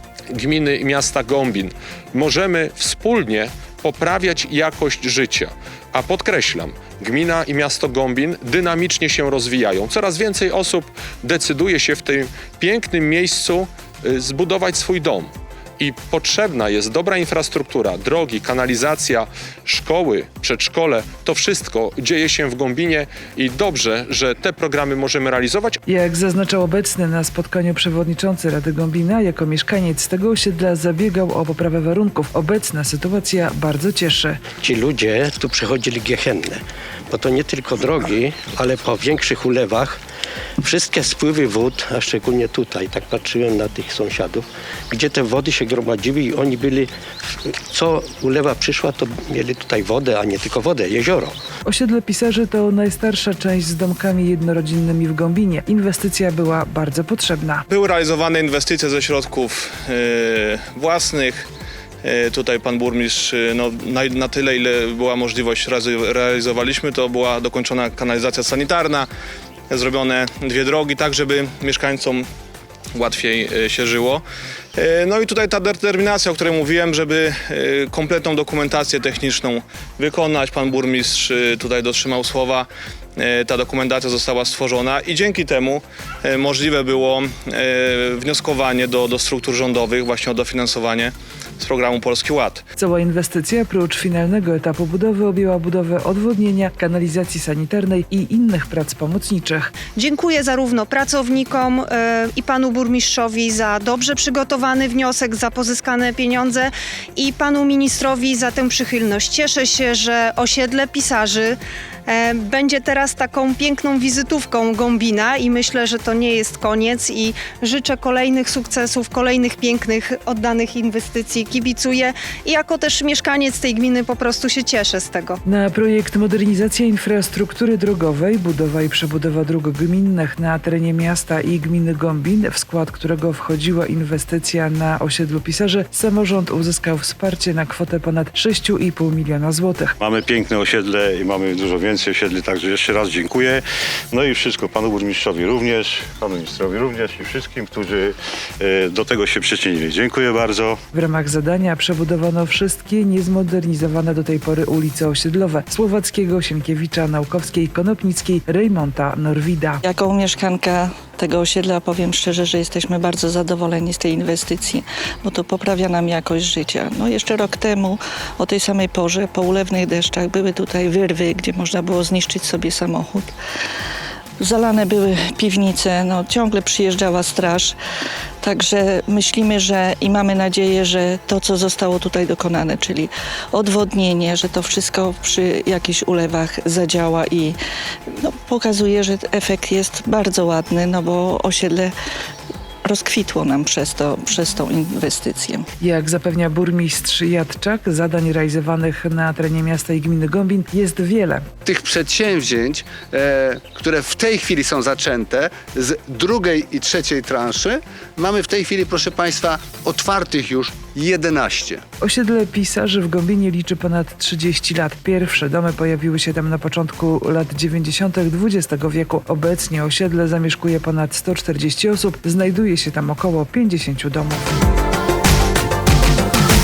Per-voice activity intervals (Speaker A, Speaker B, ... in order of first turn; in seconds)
Speaker A: 0.3-25.8
Speaker B: 25.9-34.4, 51.6-57.6, 92.8-99.7, 125.5-139.9, 150.9-159.8, 195.8-201.4, 212.0-224.5
Speaker C: 34.6-40.0, 40.6-46.9, 47.7-51.3
Speaker D: 57.7-61.5, 62.0-69.1, 69.7-72.3, 72.9-92.6
Speaker E: 99.9-125.4
Speaker F: 140.0-150.8
Speaker G: 159.8-173.3, 174.4-177.8, 178.4-187.6, 188.2-191.9, 192.8-195.6
Speaker H: 201.6-211.8